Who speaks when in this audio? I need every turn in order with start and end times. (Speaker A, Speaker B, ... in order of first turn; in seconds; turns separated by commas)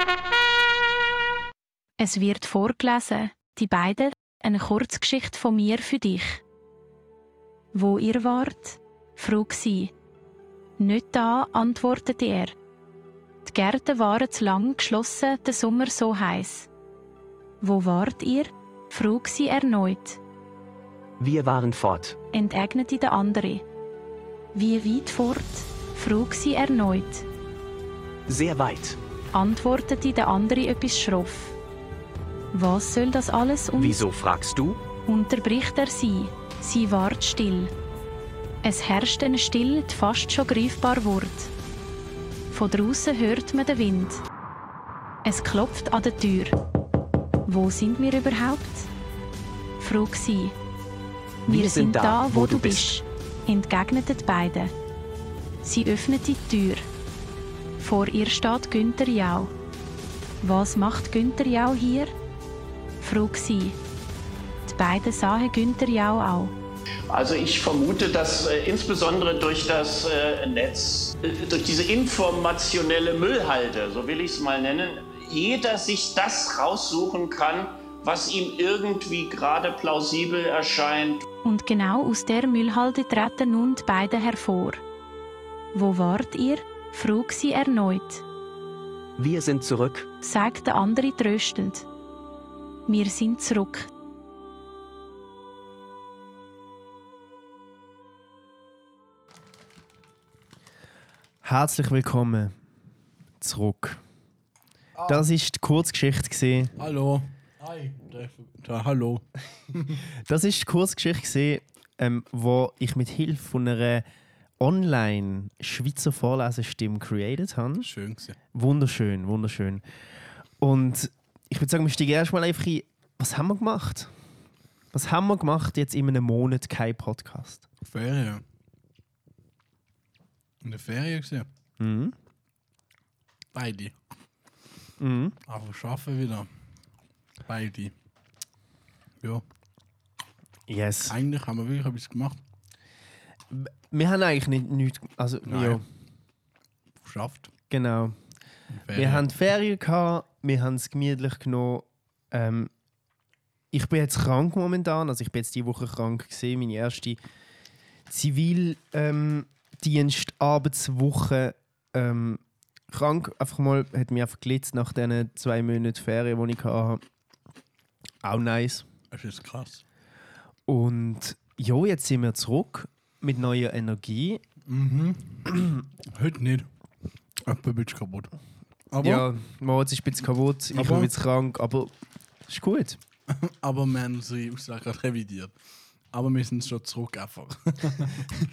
Speaker A: 2.0-6.4, Speaker A: 7.7-9.9, Speaker A: 10.8-12.5, Speaker A: 13.4-16.7, Speaker A: 17.6-20.2, Speaker B: 21.2-22.1, Speaker A: 22.3-23.6, Speaker A: 24.5-27.2, Speaker B: 28.3-29.0, Speaker A: 29.3-31.5, Speaker A: 32.5-34.0, Speaker B: 33.8-34.8, Speaker A: 35.0-37.7, Speaker A: 38.6-41.5, Speaker A: 42.5-44.2, Speaker A: 45.2-46.5, Speaker A: 47.5-48.9, Speaker A: 49.8-50.5, Speaker B: 51.5-52.9, Speaker A: 51.5-54.7, Speaker A: 55.6-56.9, Speaker A: 57.8-59.5, Speaker A: 60.4-62.1, Speaker A: 63.0-63.8, Speaker A: 64.7-66.5, Speaker C: 67.1-81.3, Speaker A: 81.4-84.8, Speaker A: 85.7-88.2, Speaker B: 89.2-90.0, Speaker A: 90.2-91.8, Speaker A: 92.9-93.9, Speaker D: 101.4-102.5, Speaker D: 103.4-104.0, Speaker E: 105.0-105.2, Speaker D: 105.0-106.7, Speaker E: 106.8-110.0, Speaker D: 110.2-114.0, Speaker D: 114.6-117.9, Speaker E: 117.8-118.4, Speaker D: 118.5-119.8, Speaker D: 120.6-124.1, Speaker D: 124.9-127.7, Speaker E: 127.8-128.4, Speaker E: 130.6-131.5, Speaker D: 131.8-132.1, Speaker E: 133.5-133.9, Speaker D: 135.0-135.3, Speaker E: 135.5-136.5, Speaker E: 137.4-137.9, Speaker D: 140.7-141.2, Speaker E: 141.1-142.4, Speaker D: 143.5-145.8, Speaker E: 145.4-145.8, Speaker E: 147.0-147.5, Speaker D: 147.7-148.2, Speaker E: 148.7-149.2, Speaker D: 148.9-152.7, Speaker D: 153.7-157.2, Speaker D: 158.1-167.0, Speaker D: 168.2-168.9, Speaker E: 169.1-169.8, Speaker D: 170.7-174.4, Speaker E: 174.7-176.7, Speaker E: 177.4-178.3, Speaker E: 178.9-179.3, Speaker D: 179.0-181.9, Speaker E: 180.7-181.1, Speaker D: 182.5-183.0, Speaker E: 183.3-185.5, Speaker E: 186.1-188.4